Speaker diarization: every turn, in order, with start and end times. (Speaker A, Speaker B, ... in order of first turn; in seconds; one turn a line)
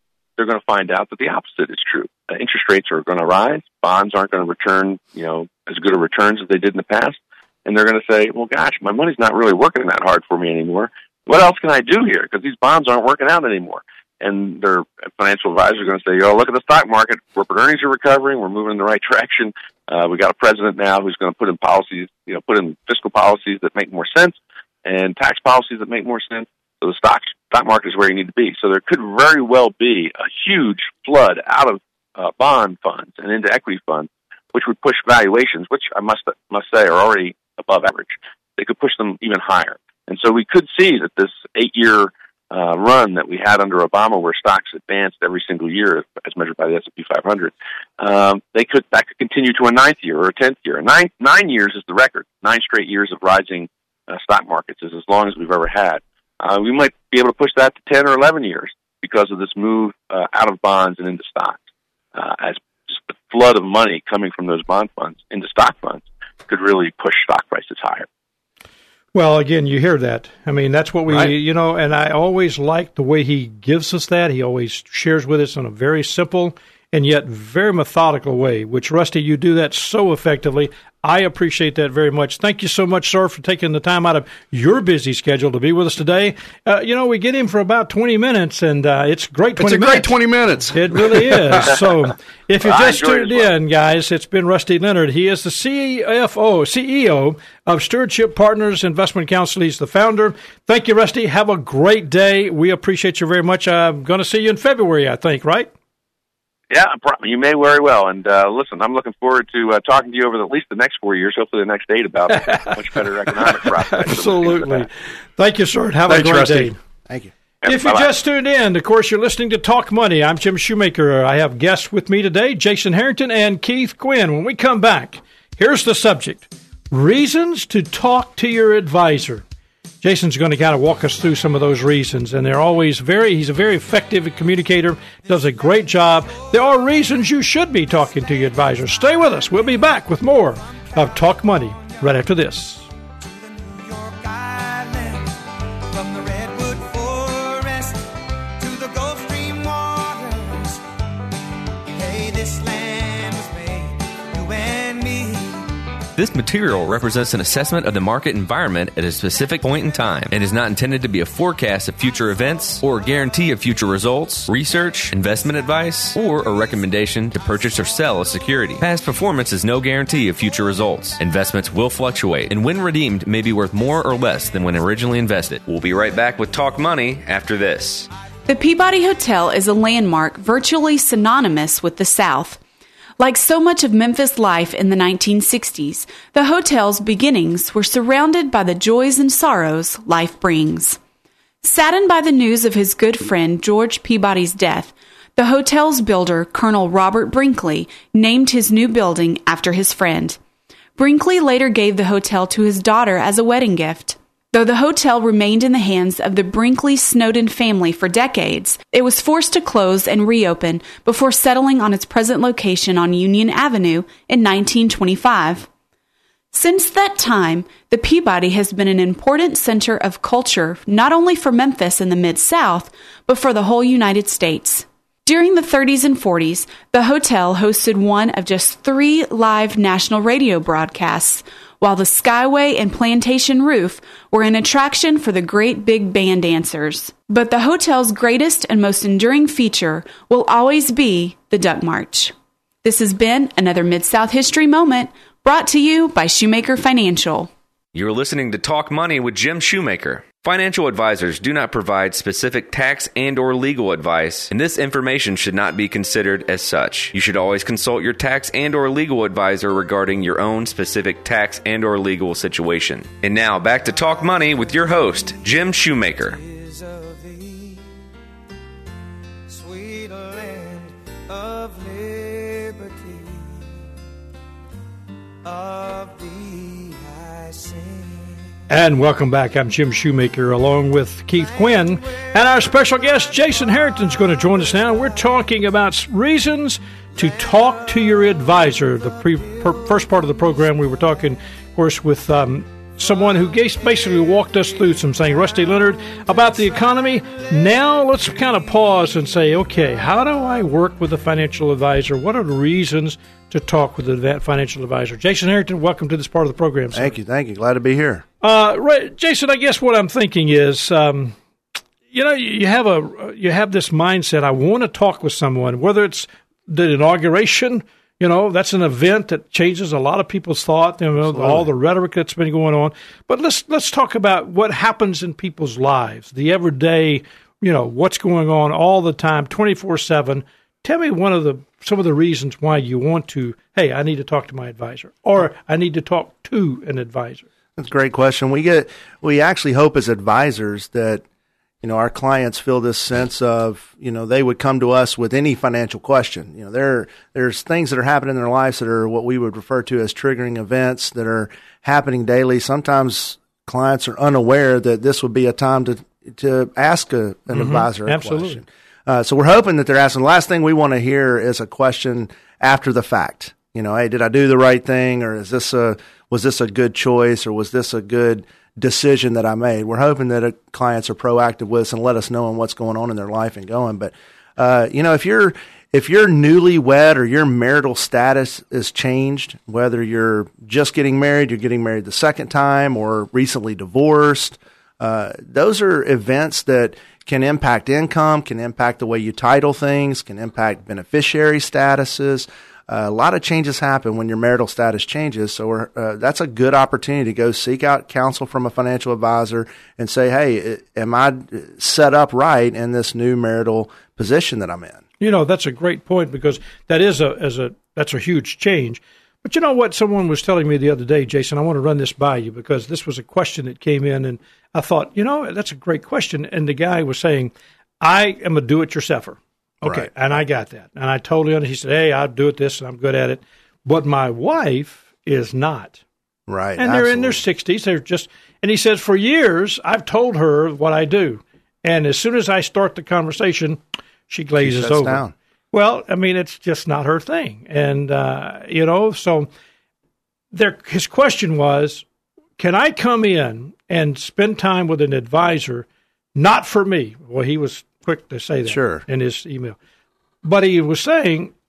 Speaker A: 0.4-61.6
Speaker A: 62.1-68.1
Speaker B: 69.1-90.1
Speaker C: 71.1-71.3
Speaker C: 89.5-91.8
Speaker B: 90.7-105.7
Speaker A: 92.6-93.5
Speaker A: 106.7-114.9
Speaker B: 112.3-116.8
Speaker C: 116.1-116.7
Speaker A: 117.6-118.1
Speaker B: 117.7-129.4
Speaker B: 130.0-142.9
Speaker D: 143.2-145.3
Speaker D: 145.9-148.0
Speaker D: 148.6-150.8
Speaker D: 151.9-155.7
Speaker E: 156.2-178.1
Speaker F: 178.5-182.6
Speaker F: 183.2-191.0
Speaker F: 191.6-200.4
Speaker F: 200.9-215.7
Speaker F: 216.5-247.5
Speaker E: 247.9-266.4
Speaker D: 266.2-267.9
Speaker D: 269.5-273.6
Speaker D: 275.4-278.4
Speaker B: 278.7-307.1
Speaker G: 306.9-308.2
Speaker B: 308.4-311.4
Speaker B: 312.1-337.4
Speaker G: 321.2-321.7
Speaker G: 337.8-341.2
Speaker G: 341.8-405.0
Speaker B: 357.5-358.6
Speaker B: 405.2-426.0
Speaker G: 419.8-420.1
Speaker G: 426.5-427.4
Speaker B: 426.8-435.2
Speaker G: 434.6-435.3
Speaker B: 435.7-439.5
Speaker B: 440.5-442.0
Speaker B: 442.6-449.8
Speaker G: 448.6-449.0
Speaker B: 450.4-451.5